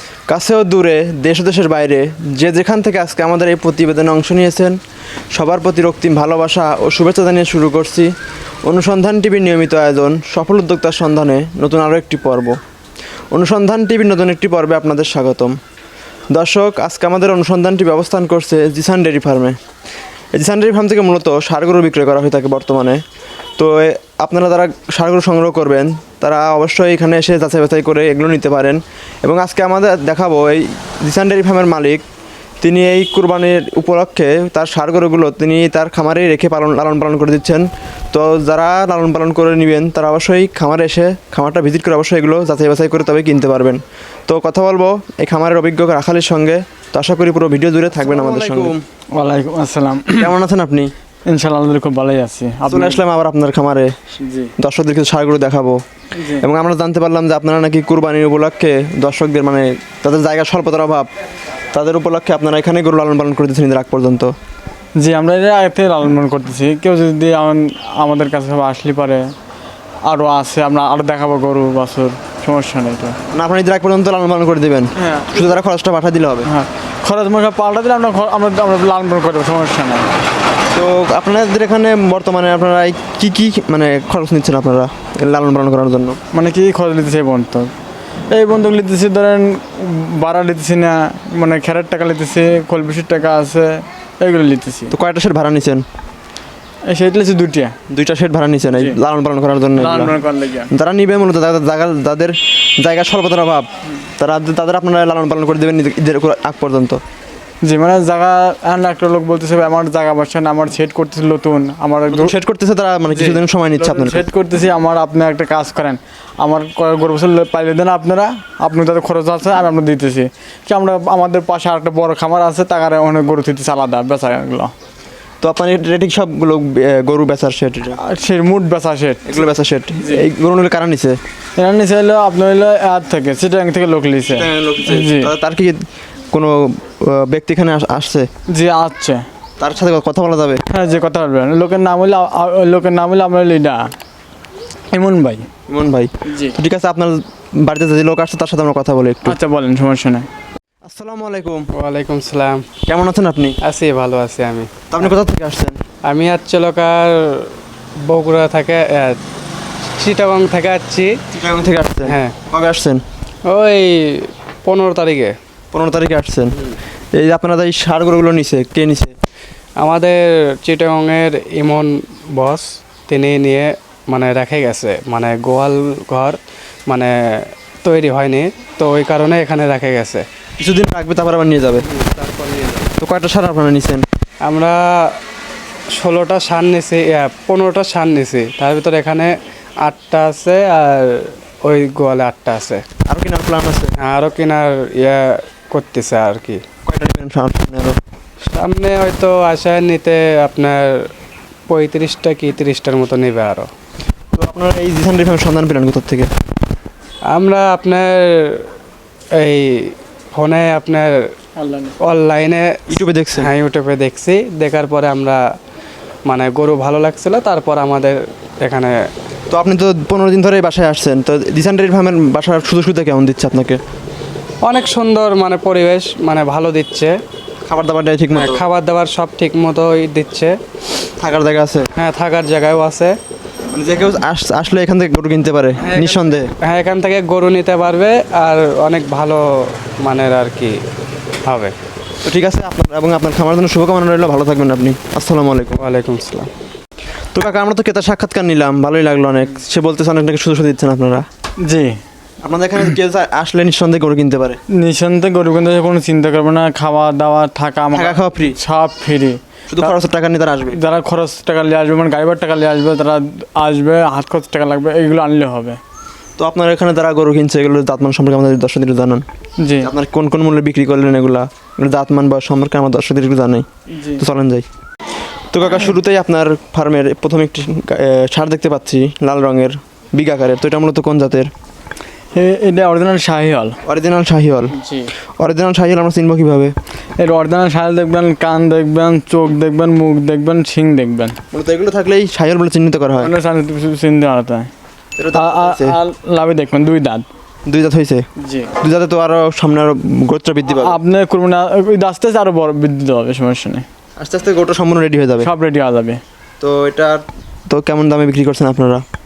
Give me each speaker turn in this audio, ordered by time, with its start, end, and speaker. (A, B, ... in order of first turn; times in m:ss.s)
0:00.3-0:04.8 A
0:05.3-0:12.6 A
0:13.3-0:15.6 A
0:16.3-0:19.6 A
0:20.3-0:23.0 A
0:23.6-0:32.0 A
0:32.6-0:48.8 A
0:48.1-0:50.3 B
0:50.2-0:50.9 A
0:51.3-0:53.0 B
0:52.7-0:53.9 A
0:54.2-0:54.5 B
0:54.6-0:55.8 A
0:56.2-0:56.4 B
0:56.4-1:01.1 A
1:01.7-1:04.3 A
1:05.0-1:09.3 B
1:10.1-1:13.2 B
1:13.3-1:16.5 A
1:15.0-1:15.5 B
1:16.4-1:20.1 B
1:20.7-1:26.2 A
1:26.3-1:27.7 B
1:28.3-1:35.0 B
1:34.9-1:35.8 A
1:36.9-1:37.8 B
1:37.9-1:40.2 A
1:39.8-1:40.7 B
1:40.7-1:47.0 A
1:47.6-1:52.3 B
1:52.1-1:54.2 A
1:53.1-2:04.7 B
2:05.4-2:08.0 A
2:08.0-2:09.4 B
2:09.3-2:11.2 A
2:11.6-2:15.3 B
2:14.3-2:18.3 A
2:18.5-2:19.3 B
2:19.6-2:20.6 A
2:20.7-2:24.0 B
2:24.9-2:25.5 B
2:25.7-2:29.4 A
2:26.3-2:26.6 B
2:29.3-2:30.3 B
2:30.8-2:31.7 A
2:31.7-2:32.7 C
2:32.9-2:33.6 A
2:33.6-2:34.8 C
2:34.9-2:35.8 A
2:36.1-2:37.5 C
2:38.1-2:39.2 C
2:40.0-2:41.2 C
2:41.3-2:43.0 A
2:42.0-2:42.4 C
2:43.5-2:45.3 C
2:45.7-2:46.6 A
2:47.1-2:49.1 A
2:49.8-3:00.2 C
3:00.6-3:01.8 A
3:01.9-3:02.9 C
3:03.0-3:04.0 A
3:04.5-3:05.1 C
3:05.9-3:12.8 C
3:13.1-3:13.9 A
3:14.0-3:16.6 C
3:16.9-3:18.0 A
3:18.5-3:21.1 C
3:21.7-3:23.7 C
3:24.4-3:26.3 A
3:27.3-3:28.7 C
3:29.3-3:31.2 C
3:31.6-3:32.0 B
3:32.0-3:35.4 C
3:32.9-3:33.5 A
3:36.3-3:39.0 C
3:39.5-3:43.8 A
3:44.6-3:47.2 C
3:47.7-3:48.6 A
3:48.3-3:50.6 C
3:51.2-3:51.9 A
3:52.0-3:53.1 C
3:53.7-3:56.5 A
3:55.8-3:59.4 C
4:00.0-4:00.8 C
4:01.5-4:01.7 C
4:02.2-4:05.8 A
4:05.8-4:06.5 C
4:07.3-4:11.3 A
4:11.6-4:12.0 B
4:12.4-4:14.6 A
4:14.8-4:20.0 B
4:17.9-4:18.6 A
4:19.7-4:20.8 A
4:20.7-4:25.8 B
4:26.4-4:29.2 A
4:29.6-4:29.9 B
4:29.8-4:34.7 A
4:33.9-4:34.2 B
4:35.5-4:41.5 A
4:42.4-4:43.8 B
4:43.8-4:44.8 A
4:44.7-4:45.1 B
4:45.4-4:46.7 A
4:47.2-4:51.4 B
4:51.5-4:53.3 A
4:53.2-4:54.7 B
4:55.2-4:56.0 A
4:55.3-4:57.2 B
4:57.7-4:58.2 A
4:58.4-4:58.7 B
4:58.8-5:01.0 A
5:00.7-5:03.8 B
5:04.2-5:05.5 A
5:05.4-5:06.2 B
5:06.6-5:09.0 A